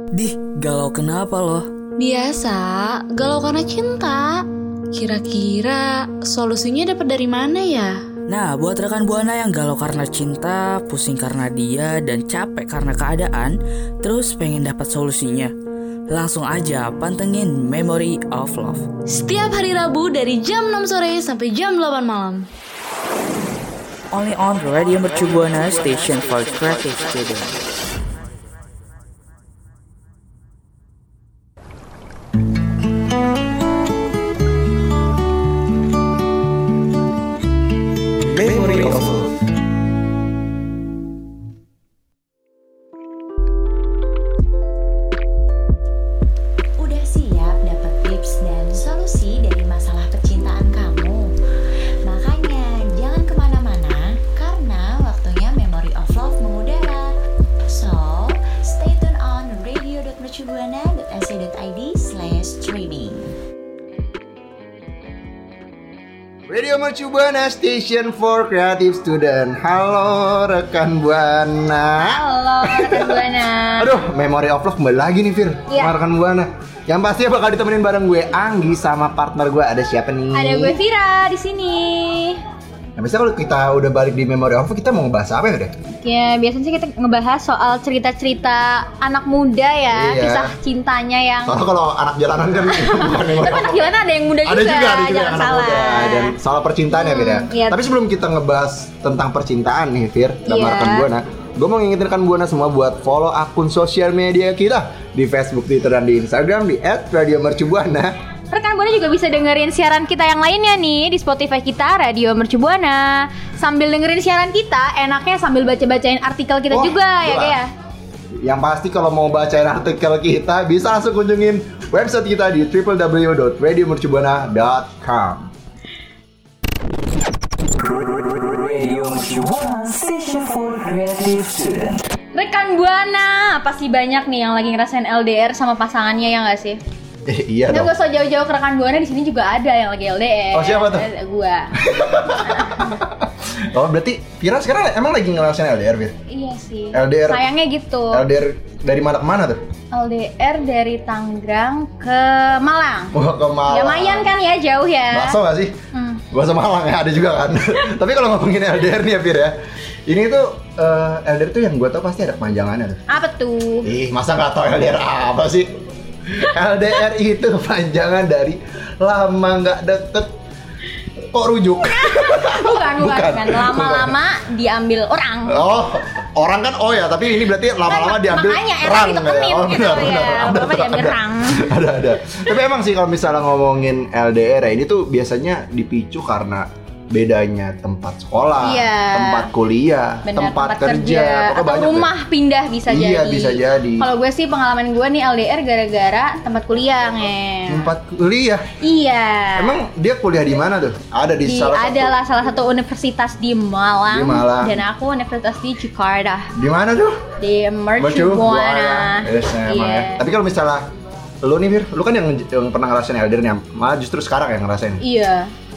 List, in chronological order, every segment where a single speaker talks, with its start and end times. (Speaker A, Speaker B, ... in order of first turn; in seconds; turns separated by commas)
Speaker A: 0.1-1.7, Speaker B: 2.0-8.0, Speaker A: 8.3-15.5, Speaker A: 16.1-18.9, Speaker B: 19.1-22.5, Speaker A: 24.1-27.6, Speaker C: 38.3-39.3, Speaker A: 38.4-39.2, Speaker D: 46.8-51.3, Speaker D: 52.1-63.3, Speaker C: 66.5-80.8, Speaker E: 72.0-73.9, Speaker E: 75.7-75.9, Speaker E: 80.3-82.4, Speaker C: 83.0-85.7, Speaker E: 85.9-91.6, Speaker C: 89.9-90.5, Speaker C: 91.5-108.1, Speaker E: 92.7-96.4, Speaker E: 96.9-97.8, Speaker E: 100.5-101.1, Speaker E: 108.5-117.7, Speaker C: 116.7-117.6, Speaker C: 118.4-125.5, Speaker A: 128.2-132.0, Speaker E: 132.3-136.8, Speaker C: 137.3-137.9, Speaker E: 137.7-141.7, Speaker C: 140.5-141.1, Speaker C: 141.8-146.2, Speaker E: 142.4-142.8, Speaker E: 146.3-148.2, Speaker C: 146.9-147.5, Speaker C: 148.1-149.6, Speaker E: 149.9-153.2, Speaker C: 153.1-154.3, Speaker E: 153.7-155.4, Speaker C: 155.1-155.8, Speaker E: 155.9-156.2, Speaker C: 156.3-159.6, Speaker C: 160.1-163.1, Speaker E: 163.1-163.9, Speaker C: 163.8-165.7, Speaker C: 166.2-170.3, Speaker C: 171.3-174.2, Speaker E: 172.0-175.6, Speaker C: 175.5-192.1, Speaker E: 177.9-181.7, Speaker E: 188.6-189.5, Speaker E: 190.3-197.9, Speaker C: 192.9-194.1, Speaker C: 197.7-198.7, Speaker E: 198.8-199.8, Speaker C: 199.6-202.2, Speaker E: 201.4-206.5, Speaker C: 204.1-204.8, Speaker C: 206.5-207.2, Speaker E: 207.4-210.2, Speaker C: 208.0-210.8, Speaker C: 211.4-215.0, Speaker E: 215.0-215.5